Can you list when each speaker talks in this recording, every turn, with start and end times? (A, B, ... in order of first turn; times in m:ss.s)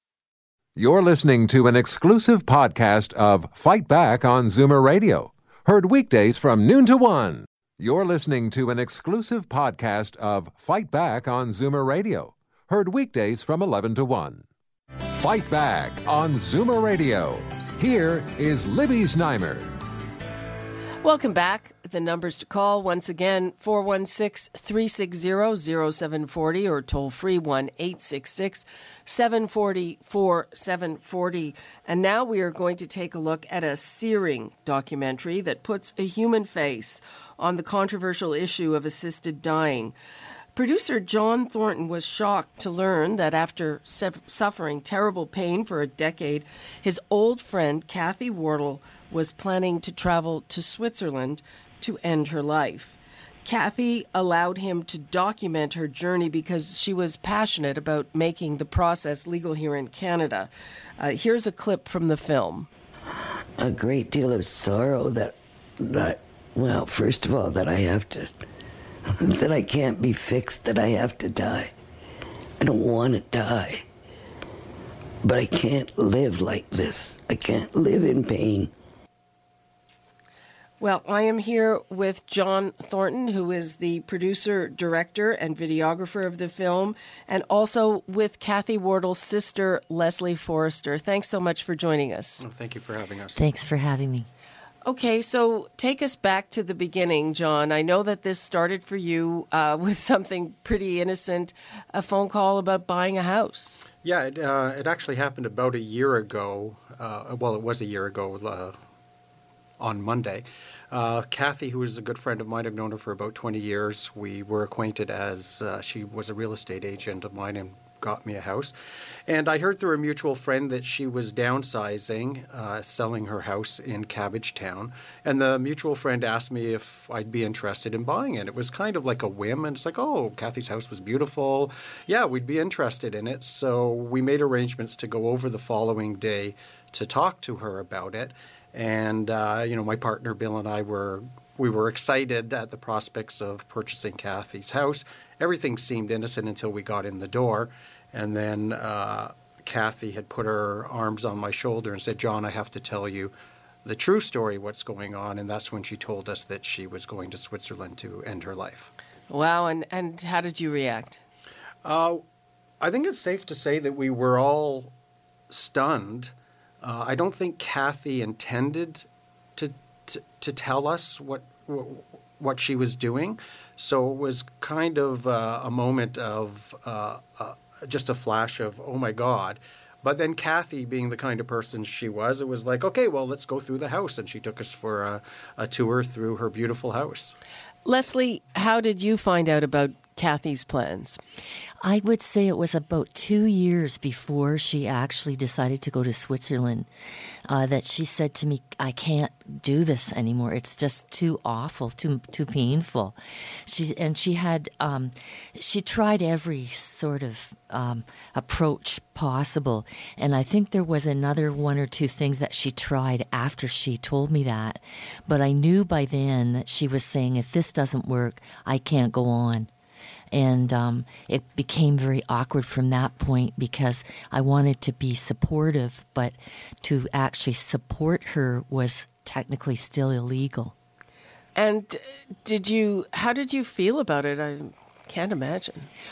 0:00.8-0:14.4 A
0:15.1-0:19.7 A
0:21.0-0:39.9 B
0:40.5-1:02.7 B
1:03.6-1:08.3 C
1:09.2-1:11.7 C
1:12.6-1:13.8 C
1:15.2-1:18.7 C
1:20.8-1:32.4 B
1:32.4-1:33.4 D
1:33.4-1:34.3 E
1:34.8-1:43.8 B
1:44.0-1:48.8 D
1:49.8-1:58.7 D
1:59.3-2:33.3 D
2:33.8-2:38.9 D
2:39.3-2:41.2 B
2:41.8-2:42.2 D
2:42.8-2:44.9 D
2:45.5-3:07.4 D
3:07.8-3:11.2 B
3:11.8-3:16.9 E
3:17.5-3:39.7 E
3:40.3-3:50.7 E
3:51.5-3:55.9 B